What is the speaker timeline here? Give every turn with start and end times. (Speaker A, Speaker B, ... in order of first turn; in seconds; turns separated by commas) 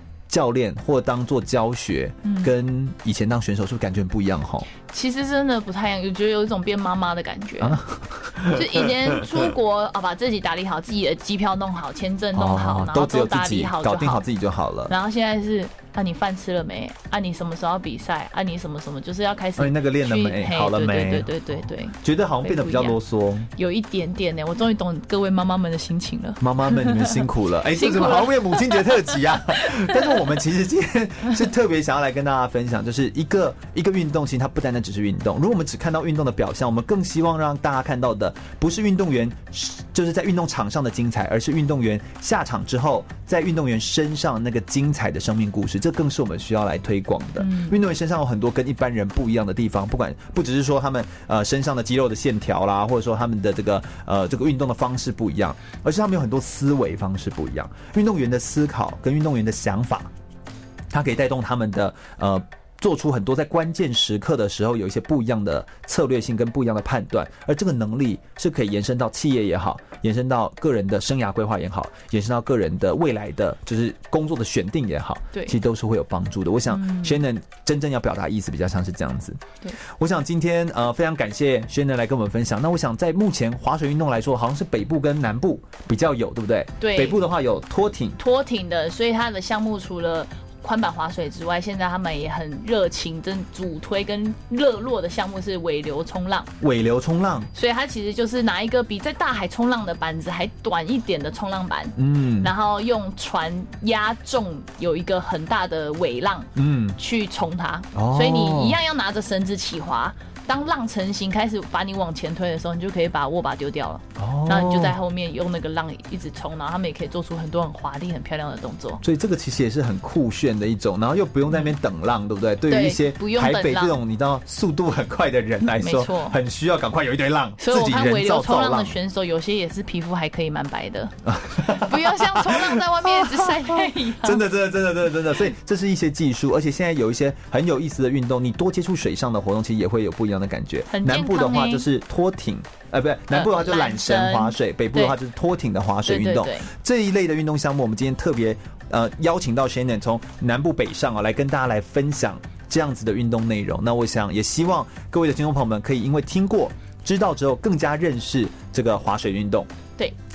Speaker A: 0.3-4.7, Speaker B: 2.2-2.5, Speaker B: 4.9-7.8, Speaker A: 7.6-9.5, Speaker B: 8.5-14.2, Speaker A: 12.3-14.9, Speaker B: 14.9-23.0, Speaker A: 19.6-23.5, Speaker B: 23.5-27.2, Speaker A: 26.4-60.1, Speaker B: 27.7-29.0, Speaker B: 29.6-29.9, Speaker B: 47.4-47.7, Speaker A: 60.9-88.2, Speaker B: 76.7-77.2, Speaker B: 86.8-87.2, Speaker B: 88.2-96.5, Speaker A: 96.6-97.5, Speaker B: 97.5-119.0, Speaker A: 102.0-102.5, Speaker A: 106.5-107.0, Speaker A: 107.9-108.8, Speaker A: 114.2-114.9, Speaker A: 119.0-128.9, Speaker B: 122.7-124.0, Speaker B: 125.8-126.4, Speaker B: 127.6-134.4, Speaker A: 131.2-159.7, Speaker B: 140.9-141.8, Speaker B: 143.3-145.2, Speaker B: 146.1-146.7